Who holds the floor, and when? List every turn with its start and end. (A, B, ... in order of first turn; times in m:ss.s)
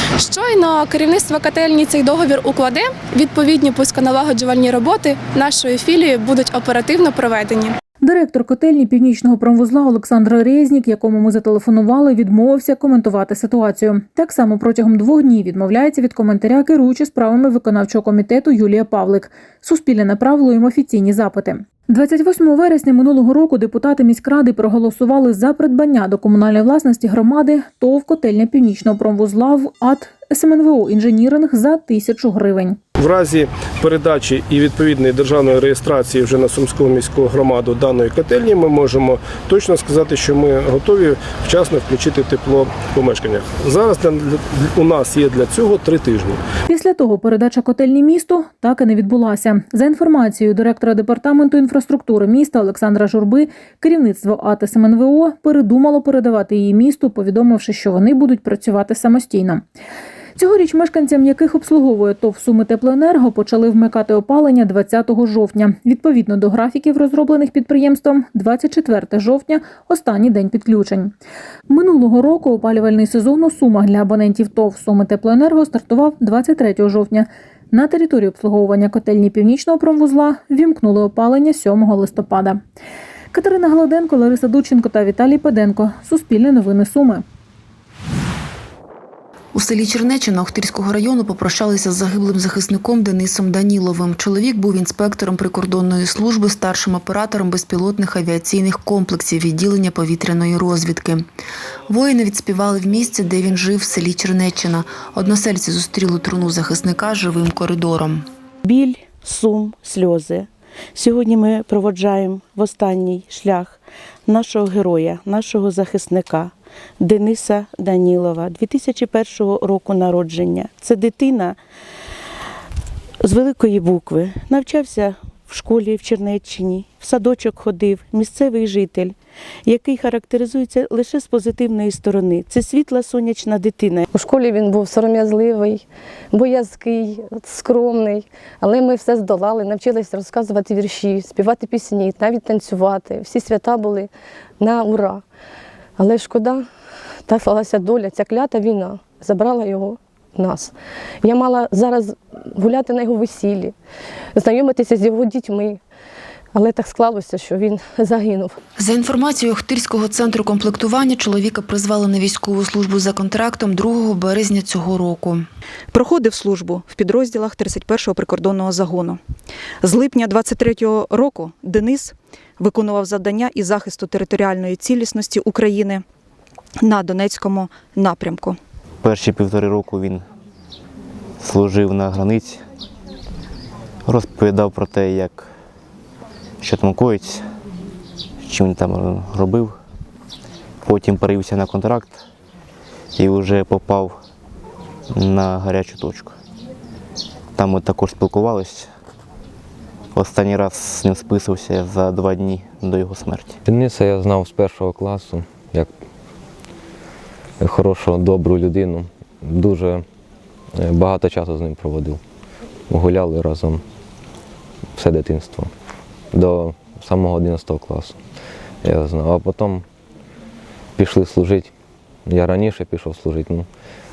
0:00.2-0:07.8 A
0:08.0-0:32.8 B
0:33.0-0:46.4 C
0:46.7-0:59.6 B
1:00.4-1:11.1 B
1:11.7-1:22.6 B
1:23.3-1:27.2 B
1:29.5-1:41.2 D
1:41.9-1:48.2 D
1:48.6-2:01.6 E
2:03.2-2:14.1 E
2:14.1-2:25.2 F
2:26.0-2:26.7 F
2:27.3-2:33.7 F
2:34.3-2:35.8 F
2:36.5-2:38.6 F
2:38.8-2:45.4 D
2:45.9-2:49.2 G
2:49.8-2:56.0 G
2:56.8-2:58.6 G
2:59.0-3:00.2 H
3:01.4-3:02.6 H
3:04.1-3:05.4 H
3:06.6-3:07.4 H
3:08.5-3:09.7 H
3:10.8-3:12.2 H
3:13.2-3:14.1 H
3:15.2-3:16.3 H
3:17.6-3:18.8 H
3:20.2-3:23.5 H
3:23.7-3:25.9 I
3:27.6-3:30.0 I
3:30.8-3:32.2 I
3:32.9-3:33.8 I
3:35.0-3:35.7 I
3:36.3-3:38.2 I
3:38.8-3:39.8 I
3:41.0-3:41.7 I
3:42.3-3:43.7 I